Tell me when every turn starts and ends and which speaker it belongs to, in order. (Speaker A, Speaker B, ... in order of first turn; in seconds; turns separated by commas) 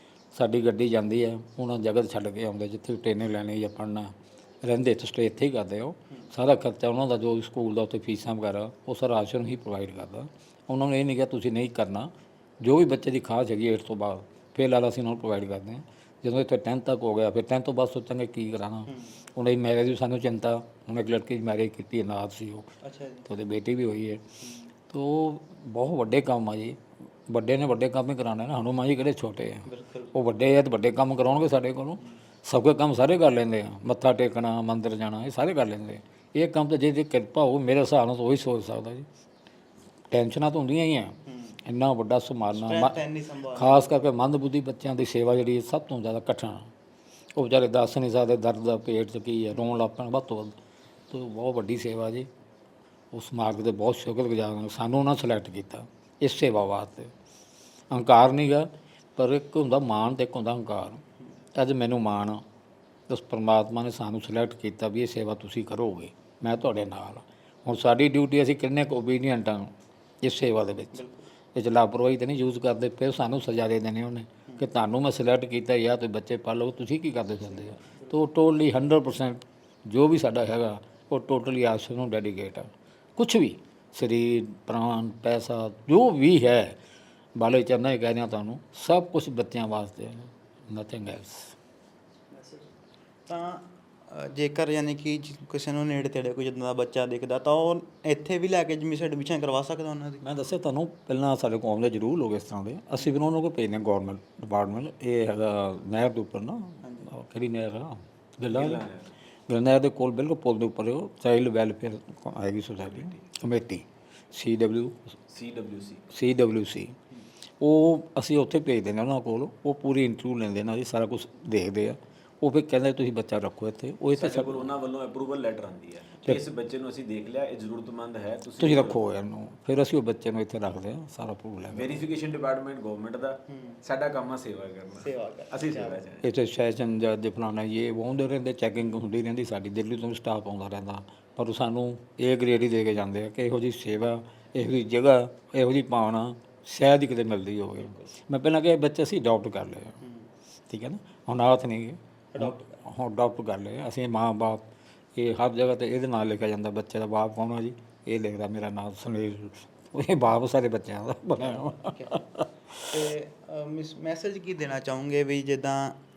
Speaker A: 0.3-22.7, Speaker B: 18.9-19.1, Speaker B: 22.8-23.2, Speaker A: 23.2-24.2, Speaker B: 24.4-24.7, Speaker A: 24.9-39.1, Speaker B: 29.7-30.2, Speaker A: 40.1-43.0, Speaker B: 41.3-41.6, Speaker B: 42.5-44.1, Speaker A: 43.5-46.7, Speaker A: 47.3-50.6, Speaker A: 51.1-52.3, Speaker A: 53.1-57.1, Speaker A: 57.9-61.0, Speaker A: 61.6-62.4, Speaker A: 63.1-69.7, Speaker A: 70.2-71.0, Speaker B: 70.9-71.3, Speaker A: 71.5-86.8, Speaker B: 77.5-78.2, Speaker A: 87.3-91.5, Speaker B: 92.3-92.7, Speaker B: 93.3-100.2, Speaker A: 100.2-108.8, Speaker B: 106.8-107.1, Speaker C: 108.5-109.1, Speaker A: 109.5-115.1, Speaker C: 115.3-116.1, Speaker A: 116.1-116.9, Speaker A: 117.6-124.7, Speaker C: 124.1-129.0, Speaker A: 128.6-132.0, Speaker C: 131.7-136.3, Speaker B: 133.5-133.8, Speaker B: 135.0-136.0, Speaker A: 136.2-150.0, Speaker B: 147.8-148.1, Speaker B: 150.0-150.3, Speaker A: 150.7-162.8, Speaker B: 152.3-152.8, Speaker B: 161.4-162.2, Speaker B: 162.9-166.0